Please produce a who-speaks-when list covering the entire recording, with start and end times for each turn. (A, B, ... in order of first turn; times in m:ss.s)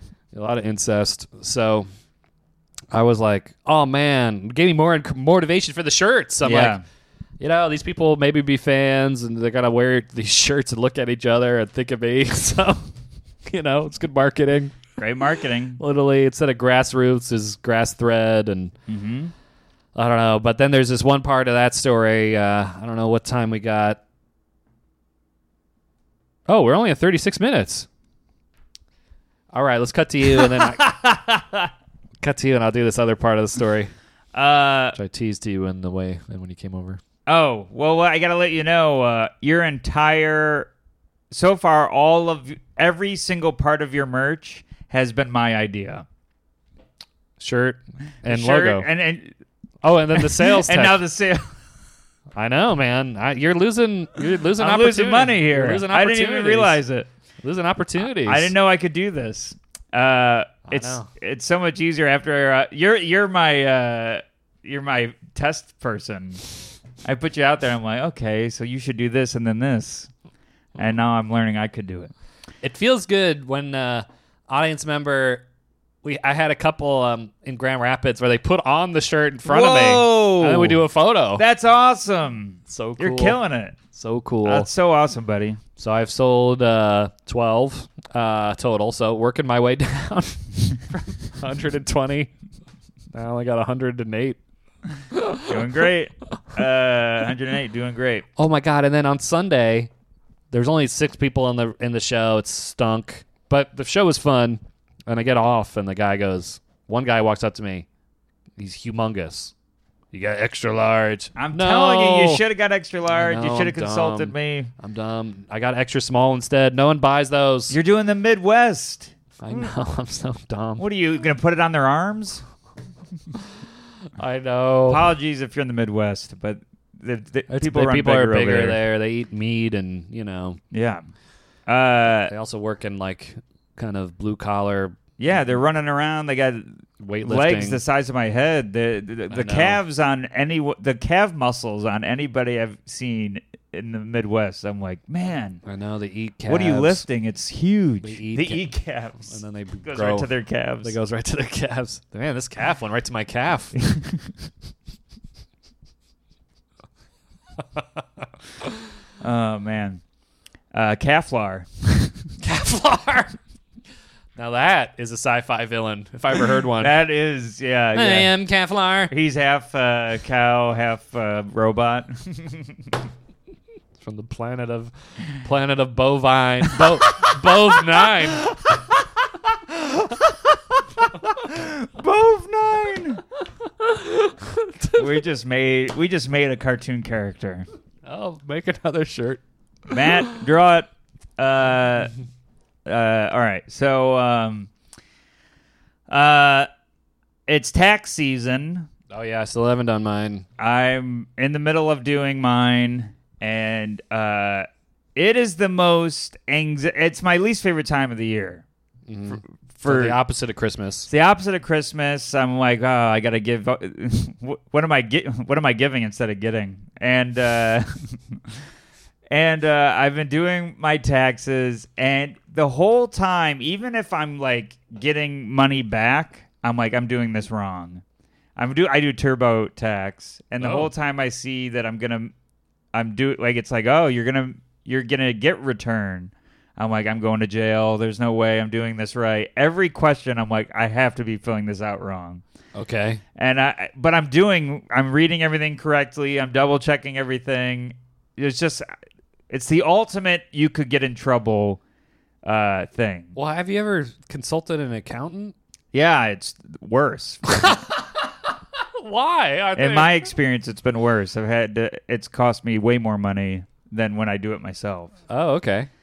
0:00.3-0:01.9 A
0:02.9-0:06.8 A
0:06.4-0:06.8 B
0:07.4-0:12.9 A
0:13.5-0:14.8 A
0:15.0-0:15.8 B
0:15.8-0:18.7 A
0:18.9-0:19.3 B
0:20.0-0:24.0 A
0:26.5-0:27.9 A
0:29.5-0:31.0 A
0:30.4-0:31.6 B
0:32.2-0:33.9 A
0:34.3-0:35.0 B
0:35.0-0:37.0 A
0:37.3-0:40.7 B
0:41.3-0:46.1 B
0:47.4-0:48.9 A
0:48.2-0:49.4 B
0:49.8-0:51.0 A
0:50.2-0:51.5 B
0:52.4-0:56.8 A
0:54.6-0:57.1 B
0:57.4-0:58.5 A
0:58.2-1:06.4 B
1:00.7-1:01.1 A
1:07.0-1:10.1 B
1:10.8-1:12.1 B
1:12.6-1:15.4 A
1:16.0-1:21.4 A
1:19.5-1:23.8 B
1:22.7-1:24.7 A
1:24.4-1:25.6 B
1:25.8-1:32.3 A
1:33.1-1:34.4 A
1:35.5-1:38.3 B
1:38.4-1:39.9 A
1:40.5-1:47.9 A
1:48.6-1:49.5 A
1:50.1-1:52.4 A
1:51.4-1:54.7 B
1:53.1-1:57.8 A
1:57.7-1:59.7 B
1:59.4-2:00.8 A
2:00.8-2:02.4 B
2:04.2-2:05.1 A
2:04.9-2:08.8 B
2:07.5-2:10.6 A
2:10.7-2:11.0 B
2:11.7-2:12.3 B
2:12.3-2:15.0 A
2:15.2-2:25.6 B
2:17.0-2:17.8 A
2:19.3-2:19.8 A
2:25.6-2:27.0 A
2:26.5-2:29.3 B
2:28.0-2:30.3 A
2:29.9-2:31.0 B
2:30.8-2:33.8 A
2:33.9-2:34.2 B
2:39.2-2:40.0 B
2:40.7-2:42.2 B
2:42.4-2:43.4 A
2:44.4-2:46.9 A
2:46.8-2:48.3 B
2:48.0-2:49.1 A
2:49.1-2:52.9 B
2:54.0-2:58.5 A
2:56.8-3:03.2 B
3:03.8-3:05.0 A
3:04.9-3:07.7 B
3:08.1-3:09.4 A
3:09.9-3:12.1 B
3:09.9-3:10.4 A
3:12.9-3:14.7 B
3:16.1-3:16.7 B
3:17.5-3:18.9 B
3:19.1-3:20.4 A
3:20.6-3:28.6 B
3:29.1-3:31.1 A
3:29.8-3:30.2 B
3:31.1-3:38.6 B
3:39.3-3:48.0 B
3:48.6-3:52.3 B
3:50.6-3:50.9 A
3:52.9-4:02.4 B
4:02.8-4:03.2 A
4:03.4-4:08.9 B
4:09.5-4:11.8 B
4:12.4-4:13.4 B
4:13.4-4:15.6 A
4:15.9-4:17.8 B
4:17.6-4:18.0 A
4:18.8-4:20.3 A
4:19.8-4:25.1 B
4:25.3-4:25.9 A